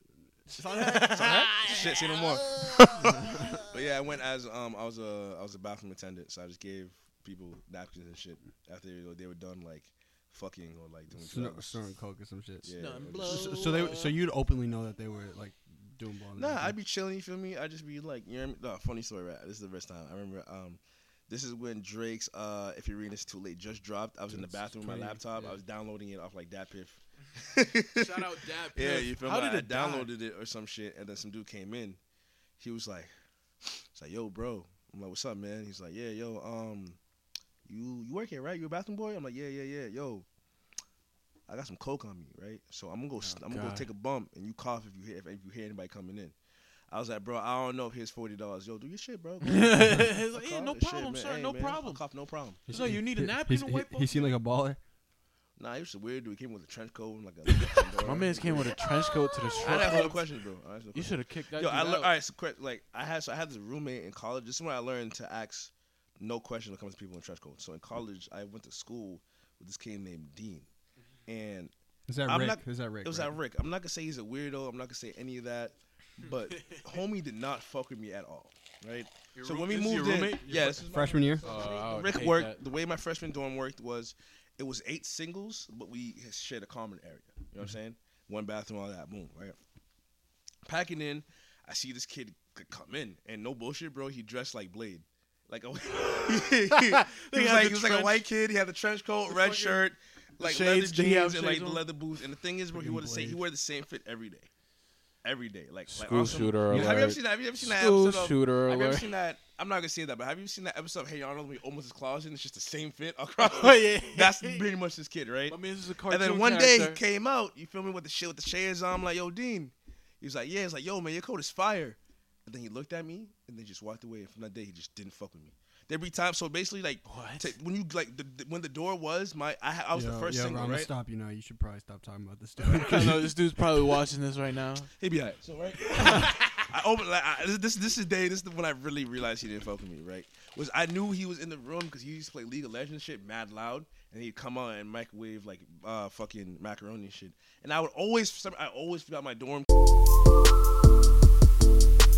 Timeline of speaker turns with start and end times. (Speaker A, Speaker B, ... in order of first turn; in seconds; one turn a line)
Speaker A: 0.5-1.8
Speaker B: 0.6-3.2
Speaker C: 1.0-11.8
Speaker A: 2.4-3.7
Speaker A: 11.1-16.8
Speaker C: 12.6-13.9
Speaker B: 12.8-14.2
Speaker C: 16.4-28.2
Speaker A: 24.3-25.6
Speaker B: 27.9-30.1
Speaker C: 28.8-32.0
Speaker C: 32.6-33.1
Speaker C: 33.6-37.0
Speaker C: 37.7-40.3
Speaker C: 41.5-46.4
Speaker B: 43.2-43.9
Speaker C: 46.9-52.7
Speaker B: 49.4-52.0
Speaker A: 52.7-54.8
Speaker B: 52.7-54.4
Speaker C: 55.6-58.8
Speaker B: 58.0-60.2
Speaker C: 59.6-70.7
Speaker B: 60.9-62.1
Speaker C: 71.3-71.7
Speaker A: 72.1-73.4
Speaker C: 72.2-89.6
Speaker B: 76.2-76.9
Speaker B: 79.3-80.8
Speaker A: 80.5-81.5
Speaker B: 81.4-82.6
Speaker C: 90.7-104.5
Speaker B: 96.0-98.2
Speaker B: 99.3-99.8
Speaker B: 100.4-101.8
Speaker A: 102.7-103.4
Speaker C: 105.2-130.9
Speaker B: 105.9-109.1
Speaker A: 106.7-107.1
Speaker B: 113.4-114.7
Speaker B: 115.5-117.0
Speaker B: 127.1-127.5
Speaker A: 129.9-133.2
Speaker C: 132.6-133.3
Speaker B: 132.7-134.9
Speaker C: 135.0-149.7
Speaker B: 136.0-136.6